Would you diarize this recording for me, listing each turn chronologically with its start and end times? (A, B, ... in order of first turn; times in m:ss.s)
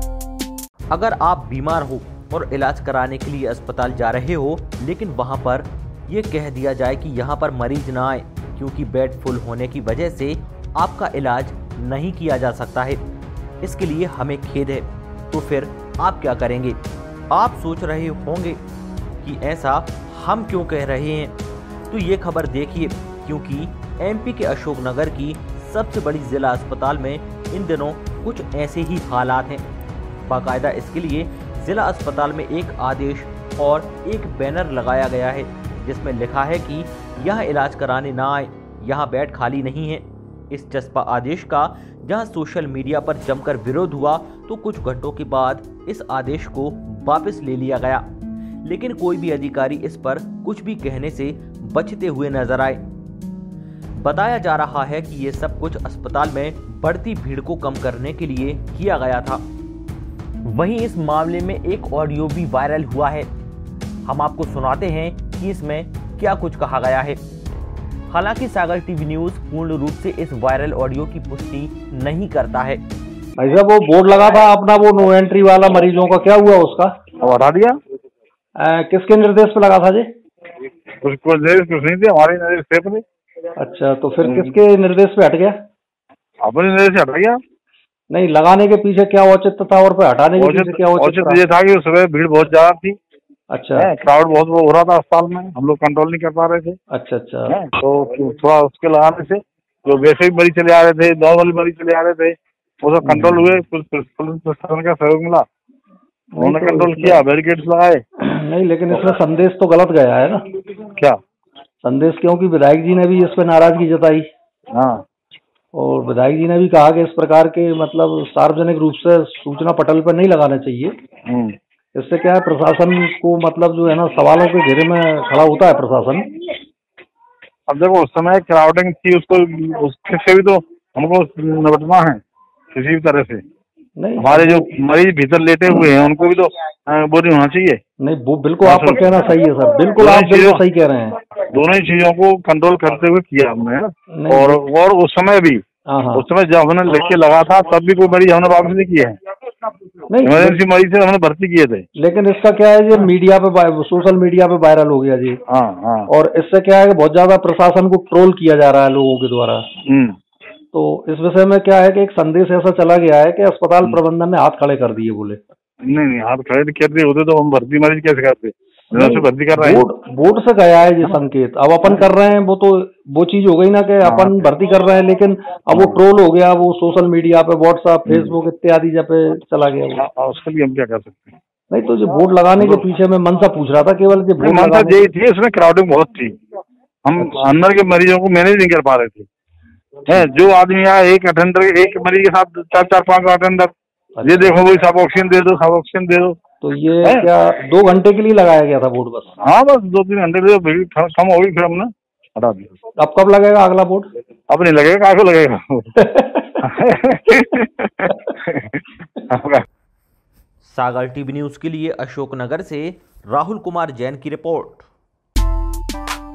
0:00.9-0:13.0 A
0:13.6-0:16.8 A
0:17.3-0:18.6 A
0:19.2-0:21.4 A
0:21.9-0:29.7 A
0:30.3-0:48.0 A
0:48.6-0:52.8 A
0:54.0-0:59.4 A
1:00.5-1:03.3 A
1:04.1-1:07.2 A
1:08.1-1:12.8 A
1:13.4-1:16.9 B
1:17.2-1:17.8 C
1:18.6-1:20.1 B
1:21.0-1:23.0 C
1:23.6-1:25.6 B
1:24.2-1:24.5 C
1:26.4-1:27.4 C
1:28.1-1:31.4 B
1:30.4-1:33.0 C
1:33.5-1:33.9 B
1:33.8-1:36.8 C
1:36.9-1:37.6 B
1:37.5-1:45.5 C
1:43.0-1:43.6 B
1:46.4-1:47.2 B
1:46.4-1:48.0 C
1:48.2-1:50.5 B
1:51.8-1:54.2 B
1:54.7-1:55.0 C
1:55.7-2:01.0 B
2:01.3-2:01.6 C
2:02.0-2:06.2 B
2:07.7-2:12.2 C
2:12.7-2:13.4 C
2:14.0-2:14.7 B
2:14.2-2:17.8 C
2:18.0-2:21.2 B
2:18.6-2:19.2 C
2:20.0-2:20.6 C
2:21.5-2:25.6 C
2:24.2-2:24.6 B
2:25.9-2:26.2 B
2:26.1-2:29.2 C
2:30.1-2:30.6 B
2:30.2-2:31.9 C
2:32.0-2:35.4 B
2:35.5-2:36.1 C
2:36.1-2:39.7 B
2:39.9-2:40.2 C
2:40.7-2:45.4 B
2:45.9-2:49.8 C
2:48.9-3:00.0 B
2:54.0-2:54.3 C
3:00.0-3:01.3 C
3:01.7-3:05.1 B
3:02.6-3:02.8 C
3:04.4-3:06.4 C
3:07.1-3:09.3 C
3:07.2-3:07.5 B
3:10.1-3:13.7 C
3:14.2-3:14.6 B
3:14.2-3:16.4 C
3:16.6-3:19.4 B
3:19.4-3:22.7 C
3:23.0-3:24.1 B
3:24.5-3:25.9 C
3:26.0-3:26.6 B
3:26.6-3:29.6 C
3:30.6-3:34.9 A